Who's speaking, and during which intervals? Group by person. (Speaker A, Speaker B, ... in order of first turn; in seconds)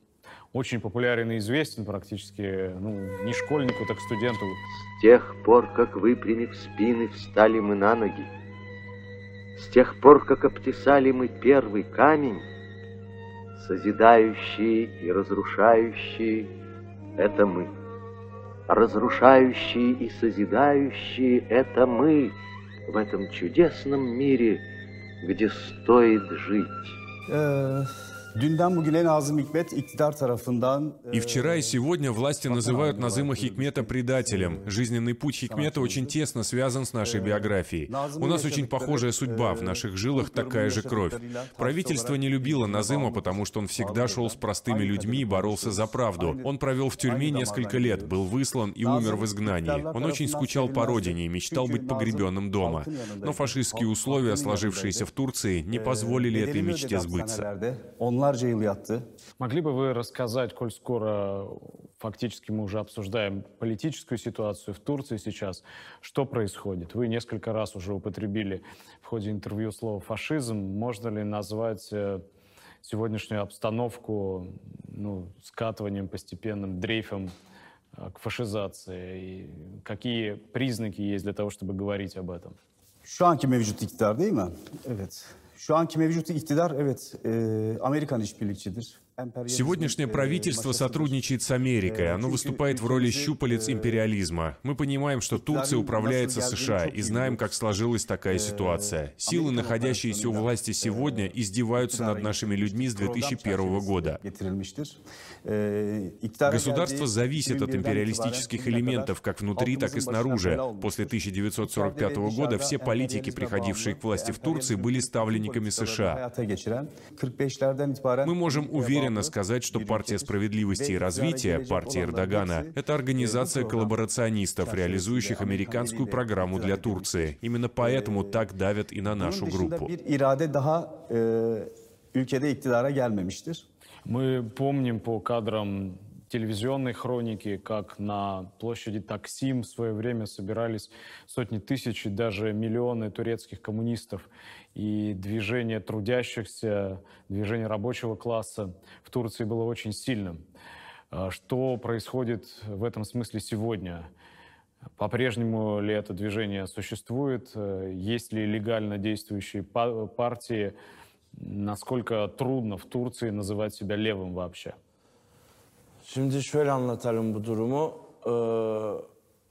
Speaker A: 0.5-4.6, 59.4-72.2, 72.8-77.3, 78.0-82.6, 134.1-150.4, 151.1-154.1, 155.0-160.7, 161.4-164.8
Speaker B: 5.0-8.3, 9.6-12.4, 13.6-16.5, 17.2-17.7, 18.7-22.4, 22.9-24.6, 25.2-26.9
Speaker C: 27.3-31.8, 32.5-34.7, 35.4-36.2, 37.0-48.2, 48.8-55.1, 55.7-59.0, 83.0-91.2, 91.8-94.1, 95.3-97.6, 98.3-124.0, 124.6-128.5, 129.1-133.7
Speaker D: 31.1-57.5, 89.5-104.2, 106.5-116.2, 118.2-129.9
Speaker E: 166.1-169.1